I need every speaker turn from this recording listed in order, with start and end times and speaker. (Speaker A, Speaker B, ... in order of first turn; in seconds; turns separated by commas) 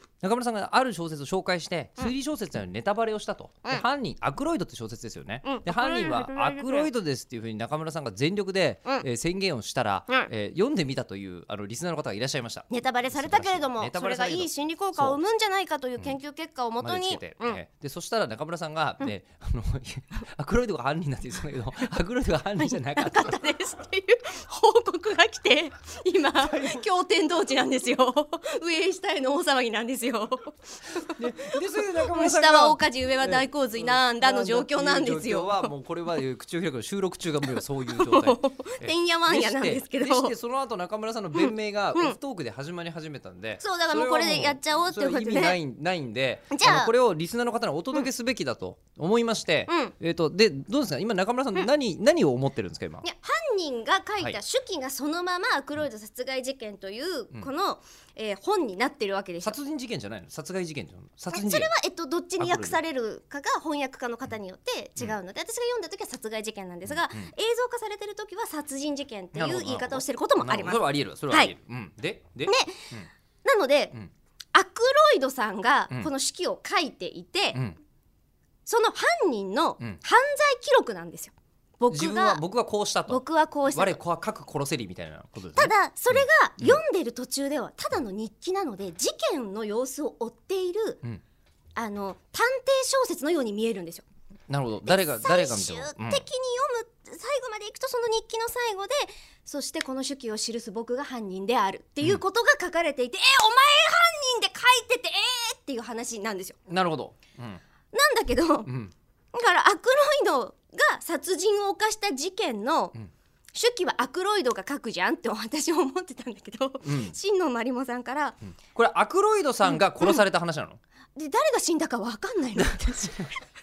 Speaker A: 0.2-15.2, Speaker B: 5.5-6.9, Speaker B: 12.7-17.6, Speaker A: 16.8-23.4, Speaker B: 22.6-35.7, Speaker A: 26.4-26.9, Speaker A: 31.2-53.0, Speaker B: 37.5-40.3, Speaker B: 41.3-42.2, Speaker B: 43.6-45.6, Speaker B: 46.5-46.9, Speaker B: 49.7-49.9, Speaker B: 53.0-59.6, Speaker A: 59.4-61.7, Speaker B: 61.3-71.5, Speaker A: 62.4-62.8, Speaker A: 66.9-67.3, Speaker A: 69.3-73.1, Speaker B: 72.5-72.9, Speaker B: 73.4-73.9, Speaker B: 74.5-77.6, Speaker B: 78.7-82.4, Speaker A: 81.9-86.8, Speaker B: 83.1-84.0, Speaker B: 85.5-91.0, Speaker B: 91.8-94.1, Speaker A: 94.5-96.2, Speaker B: 94.9-106.6, Speaker A: 106.7-107.6, Speaker B: 107.9-108.7, Speaker A: 108.7-108.9, Speaker B: 109.3-113.0, Speaker B: 113.5-118.4, Speaker A: 116.8-117.2, Speaker A: 118.8-120.8, Speaker B: 121.2-123.4